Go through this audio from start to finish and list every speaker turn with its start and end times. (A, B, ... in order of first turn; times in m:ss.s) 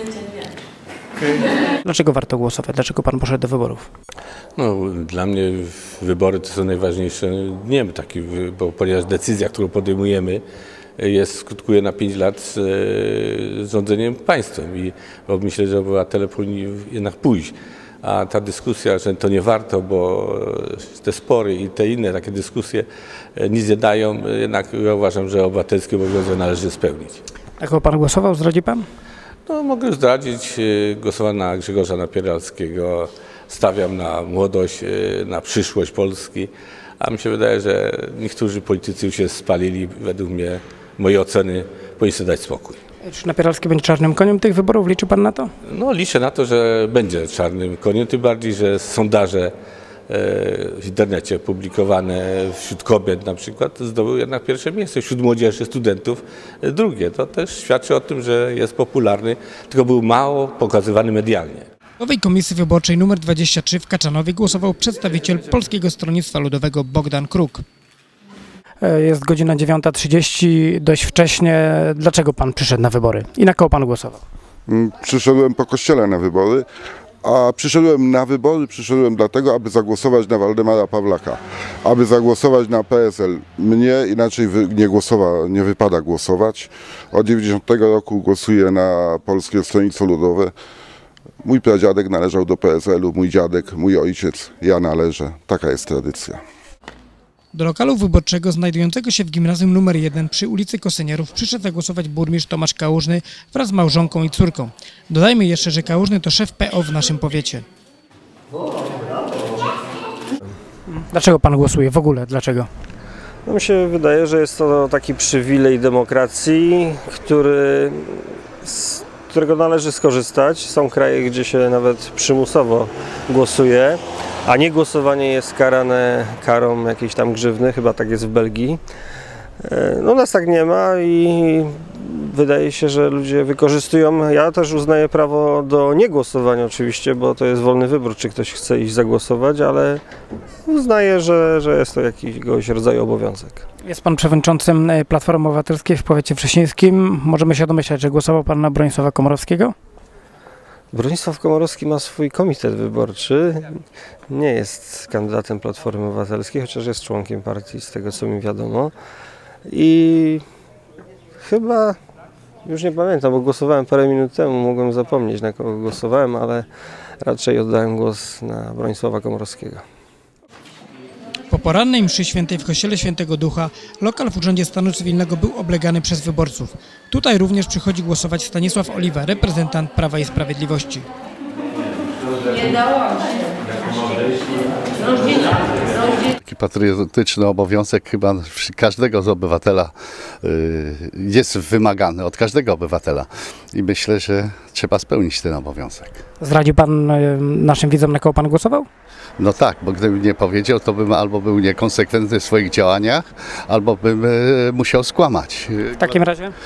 0:01.8-0:03.9 A
0:04.6-0:10.4 B
0:11.0-0:22.8 B
0:23.4-0:27.2 B
0:27.6-0:28.8 A
0:29.5-0:42.8 B
0:43.0-0:45.5 A
0:45.6-0:49.5 B
0:50.1-1:01.7 B
1:02.0-1:07.6 A
1:08.8-1:14.2 A
1:14.7-1:16.6 C
1:17.2-1:30.5 C
1:31.4-1:36.4 C
1:37.5-1:47.6 A
1:50.9-1:52.7 A
1:53.4-2:08.8 D
2:09.6-2:20.0 D
2:20.6-2:23.6 D
2:23.8-2:29.7 A
2:30.9-2:38.9 D
2:39.6-2:40.4 D
2:41.4-2:42.0 D
2:42.6-2:46.7 D
2:47.2-2:49.8 D
2:51.5-3:01.0 A
3:06.3-3:16.2 E
3:16.4-3:18.9 A
3:19.4-3:26.2 E
3:26.0-3:26.5 A